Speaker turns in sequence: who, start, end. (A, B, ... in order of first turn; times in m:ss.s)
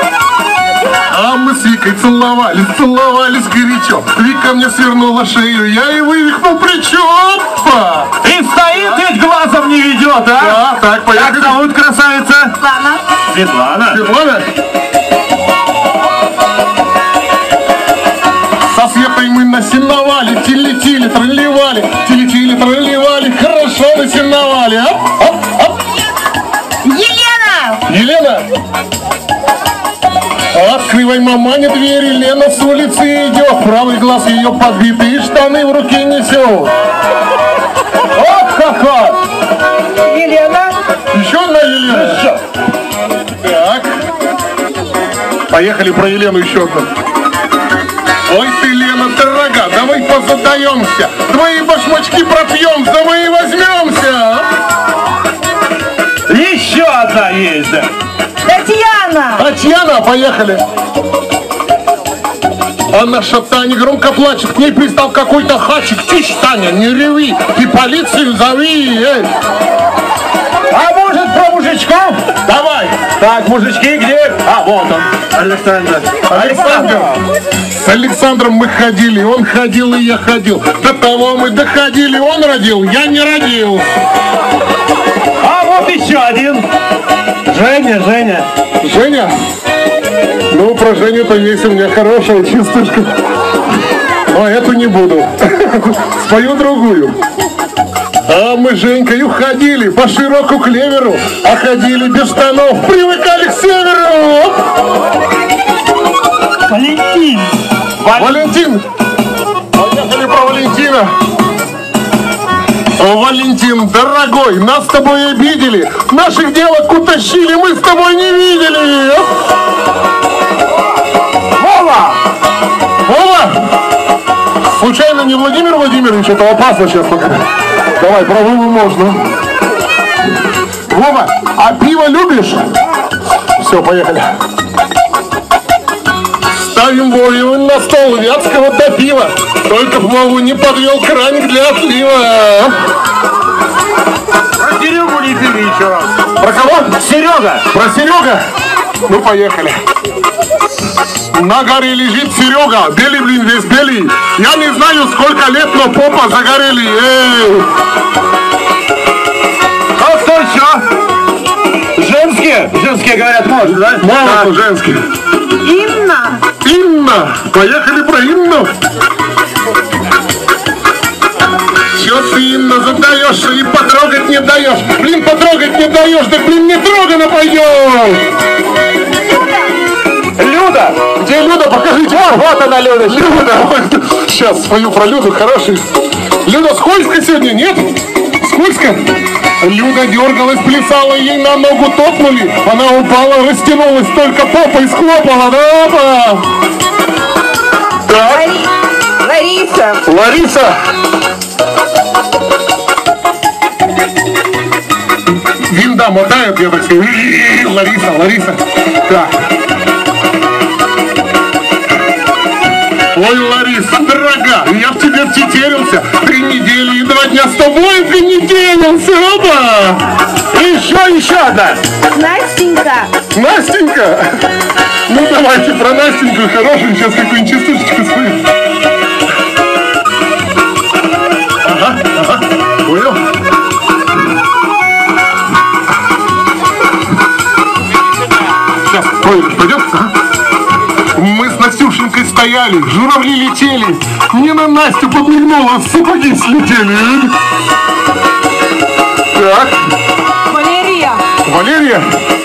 0:01.1-0:08.1 A
0:08.2-0:10.6 B
0:10.4-0:11.6 A
0:11.1-0:12.6 B
0:12.6-0:13.0 C
0:13.2-0:14.0 B
0:13.9-0:14.5 A
0:18.7-0:25.8 A
0:26.8-0:27.8 C
0:27.9-0:28.5 A
0:30.5-0:36.7 A
0:38.2-0:39.2 B
0:40.0-0:40.8 C
0:41.1-0:42.3 A
0:41.9-0:42.4 B
0:43.4-0:43.9 A
0:45.5-0:46.9 A
0:48.3-0:54.5 A
0:56.3-0:57.9 B
0:58.4-0:59.4 C
0:59.4-1:00.6 A
1:02.9-1:09.3 A
1:10.7-1:17.2 B
1:16.3-1:17.2 A
1:17.8-1:23.9 A
1:25.4-1:26.7 B
1:27.5-1:28.5 B
1:28.8-1:29.3 A
1:30.5-1:33.1 A
1:34.3-1:37.2 A
1:38.3-1:44.6 A
1:46.7-1:48.5 B
1:48.1-1:48.8 A
1:49.7-1:51.1 A
1:53.0-1:59.3 A
2:01.6-2:02.2 B
2:03.0-2:03.6 A
2:04.8-2:07.4 A
2:08.0-2:09.2 A
2:10.9-2:12.7 A
2:13.6-2:14.4 A
2:16.7-2:22.8 A
2:24.6-2:26.2 B
2:26.4-2:27.0 A
2:26.9-2:27.7 B
2:27.7-2:28.4 A
2:29.1-2:29.8 A
2:31.3-2:37.7 A
2:40.0-2:40.8 B
2:42.0-2:44.5 B
2:44.0-2:45.0 A
2:45.6-2:46.4 C
2:46.6-2:48.7 A
2:51.9-2:58.2 A
3:00.4-3:01.2 B
3:01.2-3:05.8 A
3:02.3-3:03.3 B
3:06.4-3:16.5 A
3:18.1-3:18.5 A
3:18.1-3:20.1 C
3:20.0-3:20.8 A
3:25.6-3:29.4 A
3:33.1-3:40.1 A
3:40.5-3:41.8 B
3:42.1-3:43.1 C
3:43.3-3:44.4 A
3:45.1-3:48.5 A
3:51.6-3:52.3 A
3:52.8-3:53.2 A
3:58.9-4:00.1 A
4:01.1-4:07.3 A
4:09.3-4:09.8 A
4:10.5-4:11.2 C
4:11.4-4:12.1 A